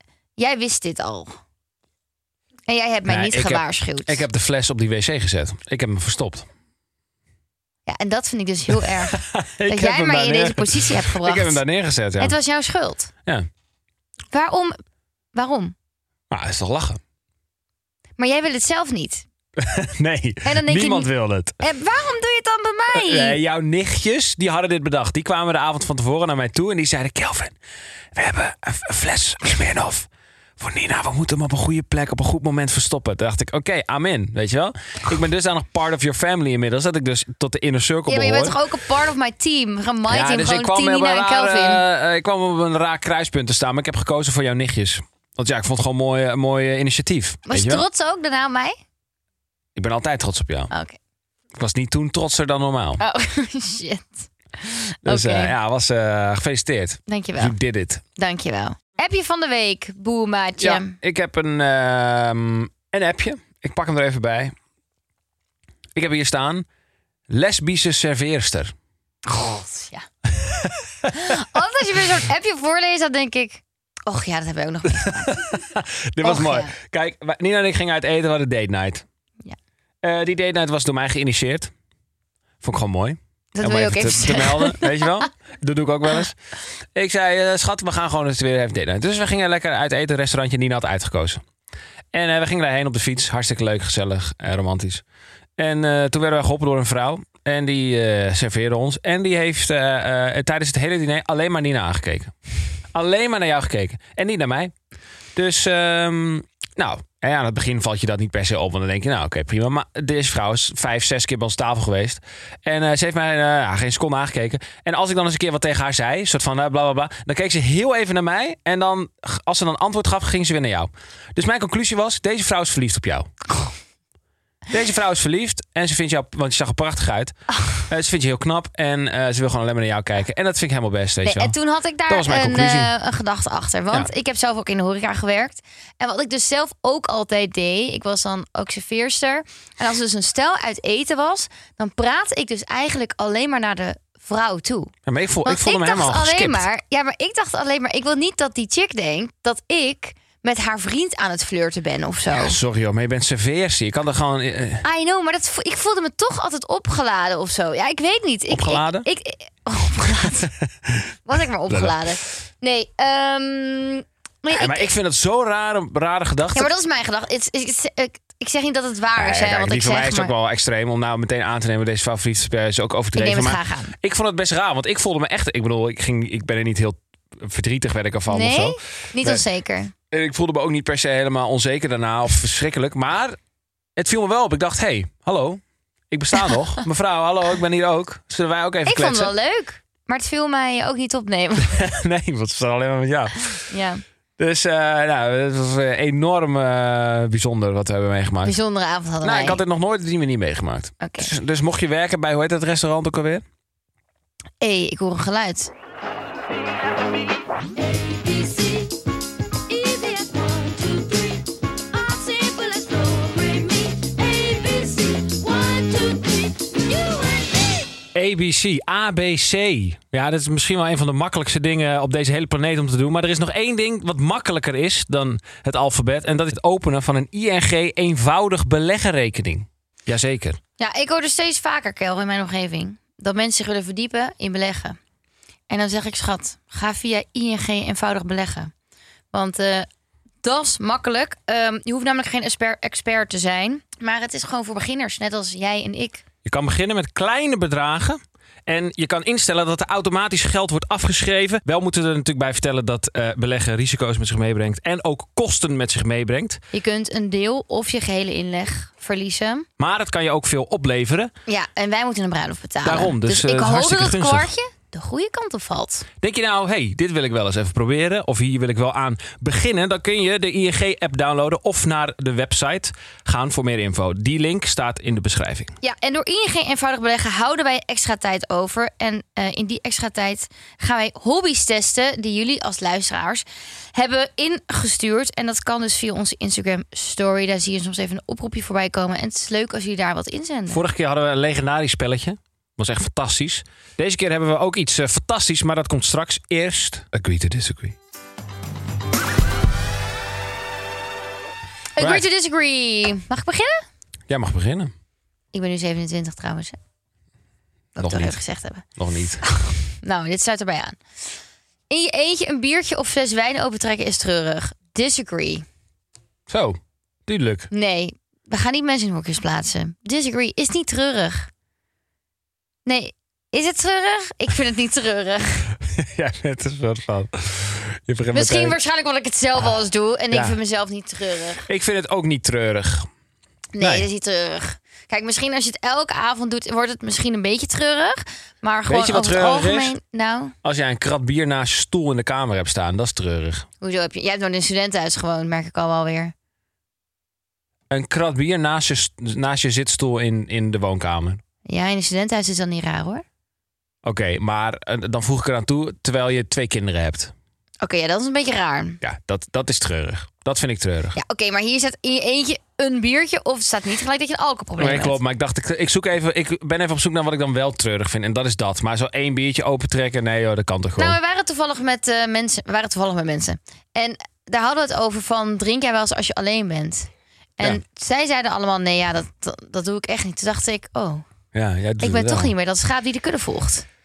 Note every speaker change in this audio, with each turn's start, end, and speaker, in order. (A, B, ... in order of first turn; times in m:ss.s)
0:00.4-0:01.4 A
0:02.7-0:04.2 A
0:03.1-0:06.5 B
0:07.9-0:11.6 A
0:08.7-0:12.4 B
0:12.2-0:13.1 A
0:14.3-0:14.8 A
0:15.3-0:15.8 A
0:16.3-0:17.0 B
0:18.2-0:19.2 A
0:19.6-0:21.6 B
0:20.4-0:21.1 A
0:21.6-0:23.4 A
0:22.9-0:27.6 B
0:28.1-0:38.6 B
0:38.1-0:41.8 A
0:40.1-0:47.9 B
0:47.5-0:48.8 A
0:49.8-0:50.7 B
0:50.7-0:51.0 A
0:51.6-0:53.0 B
0:53.0-0:55.5 A
0:55.0-0:58.0 B
0:57.1-0:57.6 A
0:58.2-1:00.9 A
1:00.6-1:04.5 B
1:05.9-1:06.7 B
1:07.3-1:08.7 B
1:09.2-1:10.0 A
1:10.3-1:11.4 B
1:11.1-1:15.4 A
1:15.0-1:19.0 B
1:16.2-1:16.7 A
1:20.0-1:21.7 B
1:22.6-1:26.4 B
1:23.6-1:25.2 A
1:26.9-1:31.4 B
1:32.1-1:35.0 B
1:35.6-1:42.3 B
1:42.9-1:44.7 B
1:45.4-2:03.3 B
2:04.7-2:07.3 B
2:07.9-2:11.6 B
2:11.2-2:24.9 A
2:12.1-2:12.9 B
2:25.1-2:26.7 B
2:25.4-2:32.6 A
2:32.3-2:34.8 B
2:34.8-2:40.5 A
2:38.5-2:39.1 B
2:40.9-2:41.1 B
2:41.2-2:44.9 A
2:41.7-2:42.0 B
2:44.5-2:46.7 B
2:46.6-2:50.3 A
2:49.2-2:59.4 B
2:53.2-2:53.9 A
2:58.3-2:59.9 A
3:00.1-3:03.4 B
3:04.0-3:09.3 B
3:08.9-3:11.8 A
3:11.7-3:13.7 B
3:13.6-3:14.0 A
3:14.4-3:18.6 B
3:18.4-3:19.6 A
3:19.2-3:23.4 B
3:21.0-3:21.3 A
3:24.6-3:25.7 A
3:27.9-3:29.0 A
3:29.7-3:37.8 A
3:38.1-3:50.6 B
3:50.8-3:55.0 A
3:55.7-3:58.7 A
3:59.3-3:59.9 A
4:00.4-4:06.2 A
4:06.4-4:16.6 B
4:16.7-4:19.7 A
4:19.8-4:21.3 B
4:21.5-4:26.1 A
4:22.8-4:24.5 B
4:26.2-4:35.7 B
4:35.8-4:50.8 A
4:50.7-4:58.0 B
5:02.0-5:03.8 A
5:02.0-5:02.3 B
5:04.3-5:04.9 B
5:05.5-5:06.8 A
5:08.0-5:08.8 A
5:08.0-5:08.4 B
5:09.0-5:09.4 B
5:09.4-5:11.0 A
5:11.9-5:15.6 A
5:16.5-5:17.7 B
5:17.7-5:21.5 A
5:22.9-5:25.7 A
5:25.8-5:28.8 B
5:28.3-5:31.6 A
5:30.3-5:30.6 B
5:31.6-5:33.1 B
5:33.8-5:40.5 A
5:33.8-5:34.1 B
5:38.9-5:40.0 B
5:40.6-5:43.6 B
5:43.8-5:46.3 A
5:47.9-5:51.4 B
5:51.6-5:53.2 A
5:54.0-5:57.3 B
5:57.8-5:59.0 A
5:59.0-6:01.2 B
6:01.2-6:05.2 A
6:04.8-6:11.2 B
6:11.0-6:21.2 A
6:21.5-6:22.5 B
6:22.0-6:23.9 A